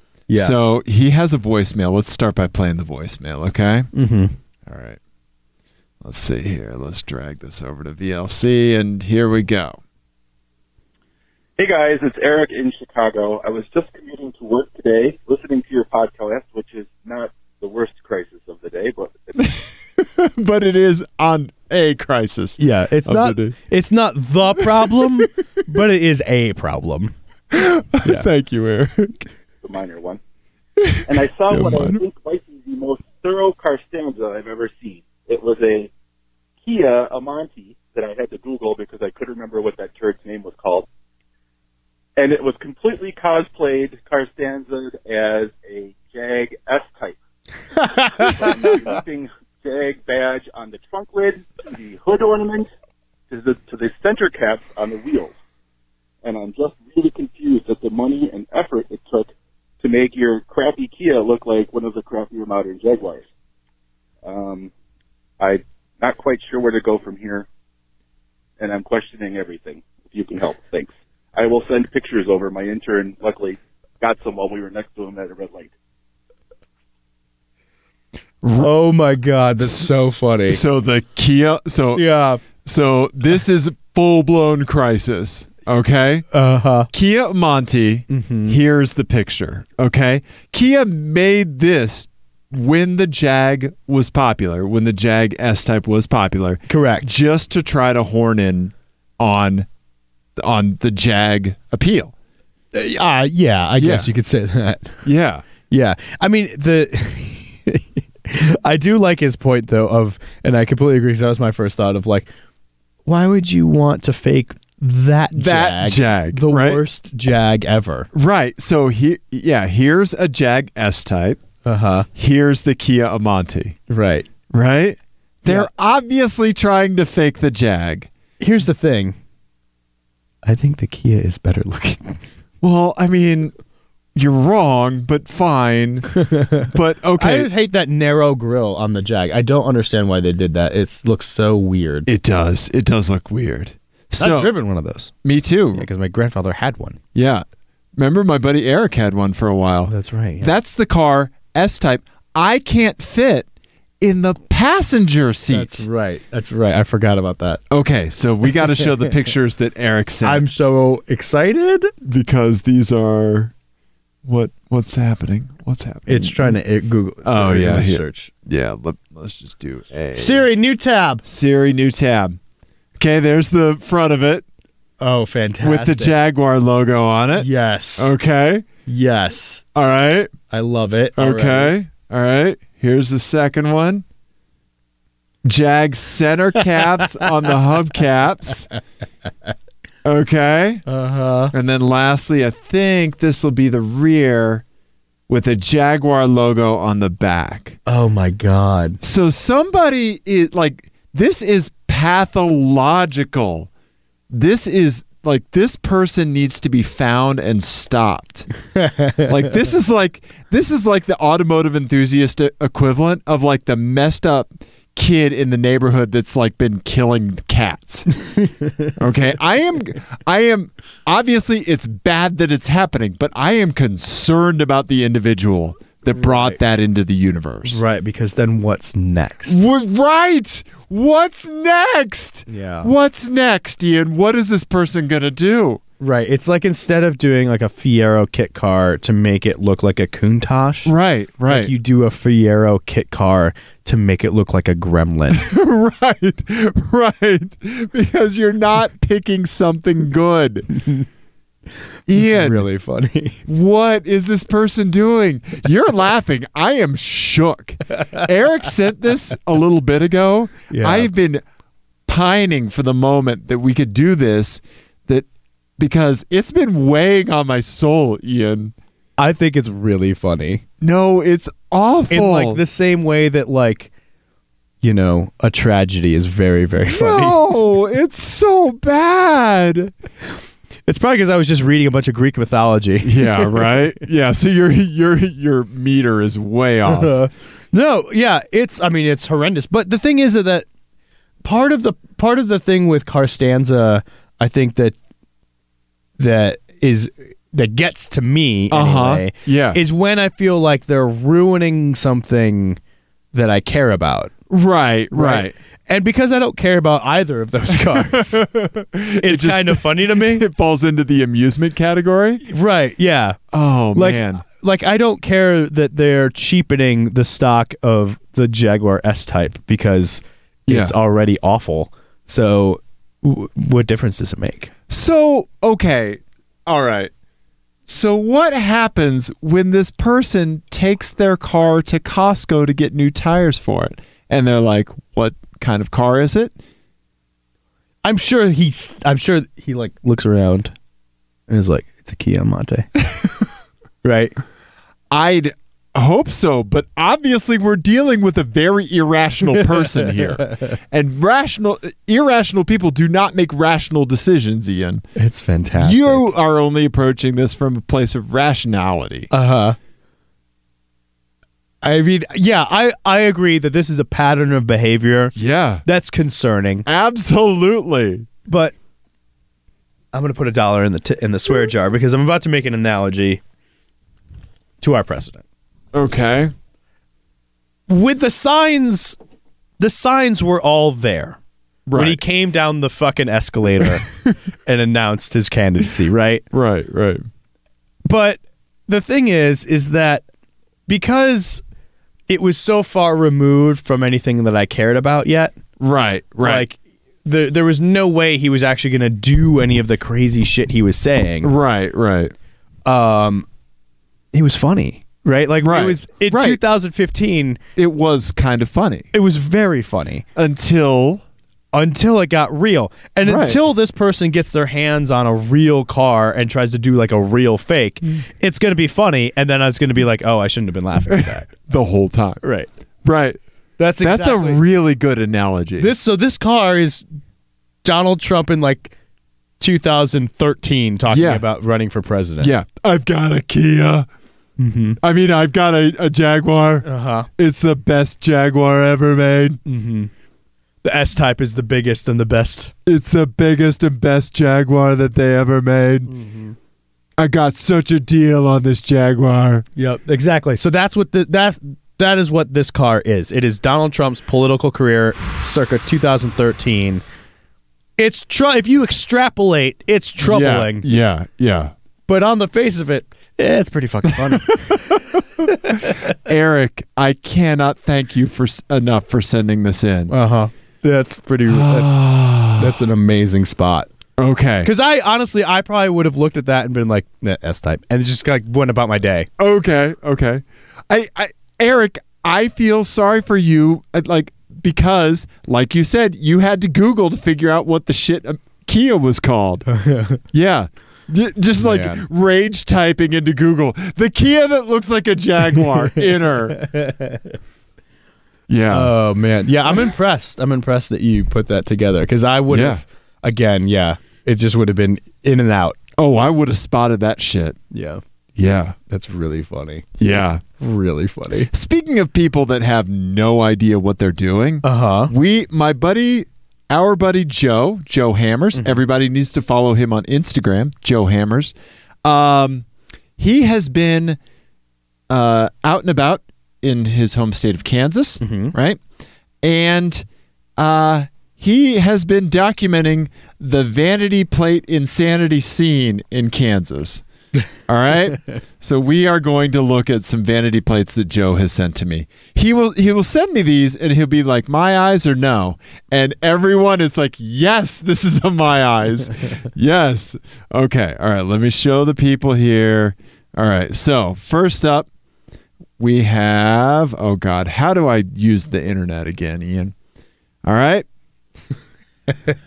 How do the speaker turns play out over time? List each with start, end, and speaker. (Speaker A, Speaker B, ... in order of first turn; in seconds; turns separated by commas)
Speaker A: 0.3-0.6, Speaker B: 0.3-3.9, Speaker A: 3.9-4.3, Speaker B: 4.7-5.0, Speaker B: 6.0-9.8, Speaker C: 11.6-19.5, Speaker B: 19.4-23.6, Speaker A: 22.6-27.1, Speaker B: 24.6-25.3, Speaker B: 27.5-29.3, Speaker C: 29.6-30.2, Speaker B: 30.8-32.0, Speaker C: 31.1-35.9, Speaker C: 36.6-40.9, Speaker C: 42.2-47.2, Speaker A: 47.8-49.0, Speaker C: 48.2-52.7, Speaker C: 53.3-55.4, Speaker C: 56.2-63.3, Speaker C: 64.2-64.7, Speaker C: 65.4-67.5, Speaker C: 68.6-75.7, Speaker B: 78.4-78.7, Speaker A: 78.6-80.6, Speaker B: 79.6-79.9, Speaker B: 80.5-82.0, Speaker A: 82.0-82.4, Speaker B: 82.6-86.3, Speaker A: 86.3-86.9, Speaker B: 86.9-99.7, Speaker A: 88.1-88.6, Speaker A: 96.7-97.1, Speaker B: 100.4-102.1, Speaker A: 102.7-105.0, Speaker B: 103.8-104.1, Speaker B: 105.0-105.5, Speaker A: 105.7-112.3, Speaker A: 113.1-118.1, Speaker B: 115.3-116.8, Speaker B: 118.1-121.4, Speaker A: 121.7-122.1, Speaker B: 122.1-123.8, Speaker A: 123.9-124.3, Speaker B: 124.5-128.1, Speaker A: 128.4-129.2, Speaker A: 130.4-132.2, Speaker B: 132.6-133.5, Speaker B: 134.2-136.1, Speaker A: 136.2-142.1, Speaker B: 136.7-137.5, Speaker B: 142.1-144.5, Speaker A: 144.2-145.1, Speaker B: 145.2-145.9, Speaker A: 145.7-147.0, Speaker B: 147.2-147.4, Speaker B: 148.0-153.5, Speaker A: 149.9-150.5, Speaker B: 154.0-155.9, Speaker A: 155.5-157.6, Speaker B: 157.7-160.4, Speaker A: 158.8-159.1, Speaker A: 160.2-161.9, Speaker B: 162.0-163.5, Speaker B: 164.2-166.6, Speaker A: 166.1-168.3, Speaker B: 167.2-170.5, Speaker A: 170.1-171.2, Speaker B: 171.2-172.4, Speaker B: 173.0-174.4, Speaker A: 175.0-176.2, Speaker B: 175.6-178.7, Speaker A: 177.4-178.1, Speaker A: 178.9-179.6, Speaker B: 179.8-180.3, Speaker A: 180.5-181.7, Speaker B: 181.2-184.1, Speaker B: 185.4-188.7, Speaker B: 190.0-190.8, Speaker A: 190.9-191.5, Speaker B: 191.5-194.6, Speaker B: 195.3-197.8, Speaker A: 197.9-199.0, Speaker B: 199.0-203.7, Speaker B: 204.3-208.5, Speaker A: 208.8-209.5, Speaker B: 209.2-218.1, Speaker A: 218.2-218.9, Speaker B: 219.0-227.8, Speaker A: 226.2-226.6, Speaker A: 227.7-229.6, Speaker B: 229.5-235.8, Speaker A: 232.5-232.9, Speaker A: 236.0-240.9, Speaker B: 240.9-241.7, Speaker A: 241.5-245.5, Speaker B: 245.3-250.7, Speaker A: 250.8-251.1, Speaker B: 252.1-252.7, Speaker A: 252.1-253.4, Speaker B: 253.5-261.4, Speaker A: 260.7-261.1, Speaker B: 262.1-265.3, Speaker B: 265.8-268.7, Speaker A: 269.2-270.6, Speaker B: 270.8-272.6, Speaker A: 272.1-273.9, Speaker A: 274.8-277.4, Speaker B: 276.9-279.9, Speaker A: 280.9-283.7, Speaker B: 283.0-287.2, Speaker A: 286.9-290.7, Speaker A: 291.4-295.0, Speaker A: 296.2-302.8, Speaker B: 298.7-299.8, Speaker A: 303.3-304.3, Speaker B: 304.5-305.5, Speaker A: 305.1-308.5, Speaker B: 307.7-312.4, Speaker A: 309.2-310.4, Speaker A: 312.4-313.4, Speaker B: 313.5-314.4, Speaker A: 313.9-324.7, Speaker B: 320.7-320.9, Speaker B: 324.9-327.1, Speaker B: 327.9-336.5, Speaker A: 338.0-340.7, Speaker A: 341.5-342.9, Speaker A: 344.0-344.4, Speaker B: 345.1-355.0, Speaker A: 349.6-350.7, Speaker A: 355.1-356.3, Speaker B: 355.8-359.3, Speaker A: 359.3-359.8, Speaker A: 361.8-365.3, Speaker B: 365.4-365.8, Speaker A: 365.9-366.9, Speaker B: 366.9-368.3, Speaker A: 368.5-368.8, Speaker A: 370.1-373.4, Speaker A: 374.8-375.4, Speaker B: 375.9-376.5, Speaker A: 377.9-379.2, Speaker A: 379.8-381.4, Speaker B: 381.9-382.2, Speaker A: 381.9-384.1, Speaker A: 384.7-386.4, Speaker B: 386.5-387.2, Speaker A: 388.1-390.2, Speaker A: 390.9-391.6, Speaker A: 392.3-395.6, Speaker B: 395.8-396.7, Speaker A: 396.4-401.5, Speaker B: 401.4-402.3, Speaker A: 402.9-403.5, Speaker A: 404.3-407.6, Speaker B: 405.6-406.6, Speaker B: 407.8-409.1, Speaker A: 409.1-410.2, Speaker B: 410.4-411.2, Speaker A: 411.7-421.5, Speaker B: 413.2-413.6, Speaker B: 421.1-422.4, Speaker A: 422.4-422.7, Speaker B: 423.1-423.4, Speaker A: 423.8-424.6, Speaker B: 424.0-425.9, Speaker A: 425.8-427.0, Speaker A: 427.8-428.9, Speaker A: 429.6-432.5, Speaker B: 431.1-431.4, Speaker B: 432.4-434.1, Speaker A: 434.6-435.0, Speaker B: 435.0-439.6, Speaker A: 436.8-437.3, Speaker A: 439.7-440.1, Speaker A: 440.8-442.7, Speaker B: 442.9-446.1, Speaker A: 446.1-446.6, Speaker B: 447.2-449.7, Speaker A: 449.8-457.0, Speaker A: 458.0-460.9, Speaker B: 460.2-461.7, Speaker A: 462.1-466.1, Speaker B: 464.1-470.1, Speaker A: 470.1-472.0, Speaker B: 471.5-472.8, Speaker A: 472.5-473.9, Speaker B: 474.2-474.7, Speaker A: 474.6-479.3, Speaker B: 479.4-489.6, Speaker A: 489.7-490.2, Speaker B: 490.3-496.6, Speaker A: 491.6-492.0, Speaker A: 496.5-497.4, Speaker B: 498.5-498.9, Speaker A: 498.7-505.8, Speaker B: 502.5-502.8, Speaker B: 506.0-507.6, Speaker A: 507.7-508.0, Speaker B: 508.4-508.8, Speaker A: 508.9-509.9, Speaker B: 510.0-510.4, Speaker A: 510.6-511.5, Speaker B: 511.5-522.7, Speaker A: 514.6-515.1, Speaker B: 523.2-524.2, Speaker B: 525.1-528.8, Speaker A: 528.2-528.5, Speaker B: 529.4-530.0, Speaker B: 530.6-537.0, Speaker B: 537.7-554.9, Speaker B: 555.8-559.8, Speaker B: 560.4-560.9